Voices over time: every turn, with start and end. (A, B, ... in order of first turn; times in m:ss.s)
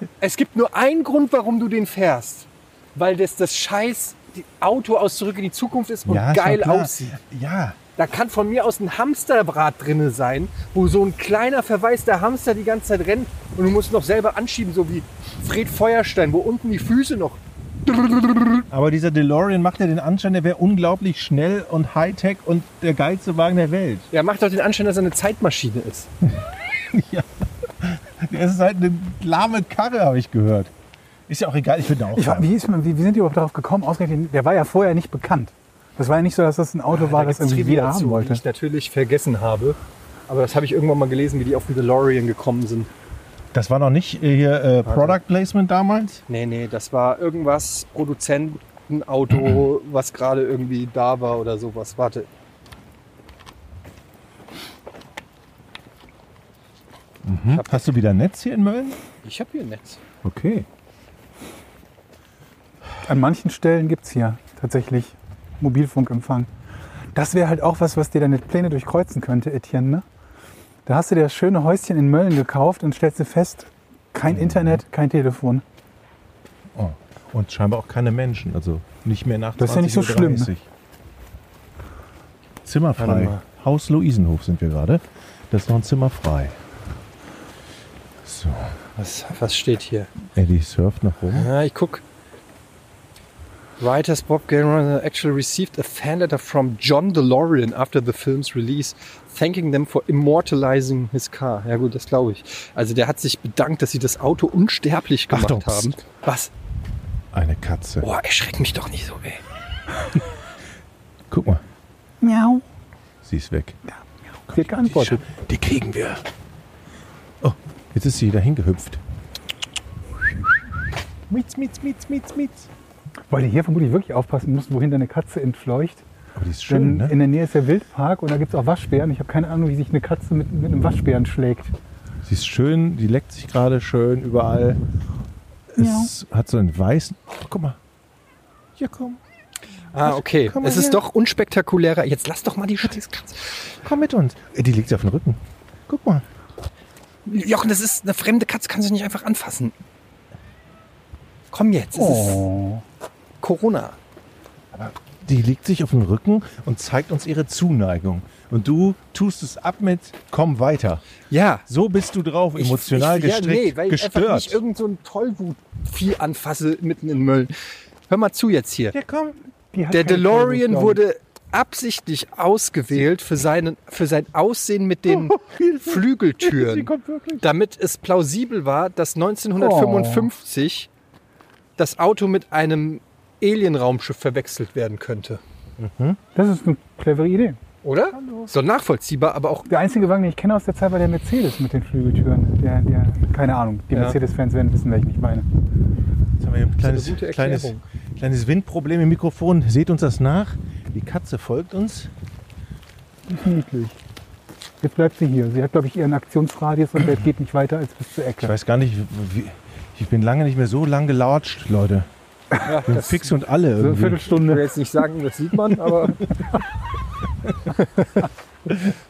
0:00.2-0:07.2 A
0:06.0-0:07.8 B
0:08.0-0:18.6 A
0:18.7-0:24.1 B
0:24.1-0:26.1 A
0:26.8-0:27.3 B
0:27.8-0:30.7 B
0:31.3-0:32.5 B
0:32.1-0:38.4 C
0:36.9-0:39.8 A
0:40.3-0:42.9 A
0:43.5-0:46.2 B
0:44.8-0:45.2 A
0:46.3-0:52.3 A
0:57.2-0:59.0 B
0:57.5-0:57.9 A
0:59.2-1:00.0 A
1:00.2-1:00.6 B
1:03.0-1:06.5 C
1:07.1-1:10.0 C
1:10.8-1:15.6 C
1:14.3-1:14.8 B
1:16.7-1:20.6 B
1:19.6-1:20.5 C
1:22.6-1:26.6 B
1:23.0-1:23.4 A
1:28.2-1:28.8 B
1:29.0-1:30.1 A
1:30.3-1:31.5 B
1:31.3-1:32.0 A
1:33.8-1:46.5 A
1:45.3-1:45.9 B
1:47.3-1:48.0 B
1:48.0-1:49.4 A
1:51.3-1:51.6 B
1:52.2-1:52.6 C
1:53.2-1:53.8 B
1:54.5-1:55.2 C
1:54.5-1:56.2 B
1:57.4-1:59.0 B
2:01.3-2:02.7 B
2:03.3-2:06.0 C
2:06.4-2:07.1 B
2:06.7-2:11.7 C
2:12.2-2:14.8 B
2:15.7-2:16.1 C
2:15.8-2:17.8 B
2:18.8-2:19.2 B
2:19.9-2:23.7 A
2:20.0-2:21.0 B
2:23.8-2:26.2 B
2:27.2-2:29.7 A
2:31.5-2:32.5 A
2:31.9-2:32.8 C
2:33.4-2:34.0 A
2:34.7-2:41.0 B
2:41.3-2:41.6 A
2:41.7-2:44.6 B
2:42.6-2:47.5 A
2:48.1-2:49.0 A
2:48.9-2:49.4 B
2:49.7-2:51.0 C
2:49.9-2:56.9 A
2:55.1-2:57.4 B
2:57.4-3:00.9 A
2:59.6-3:00.3 C
3:01.8-3:05.4 A
3:05.8-3:06.2 B
3:06.3-3:07.6 C
3:07.8-3:09.7 A
3:09.7-3:15.5 C
3:16.4-3:22.1 B
3:16.8-3:17.8 A
3:23.3-3:24.0 C
3:24.8-3:28.5 C
3:28.4-3:32.1 B
3:32.6-3:33.3 A
3:32.9-3:34.3 B
3:33.8-3:34.7 C
3:34.4-3:36.3 A
3:37.7-3:38.3 A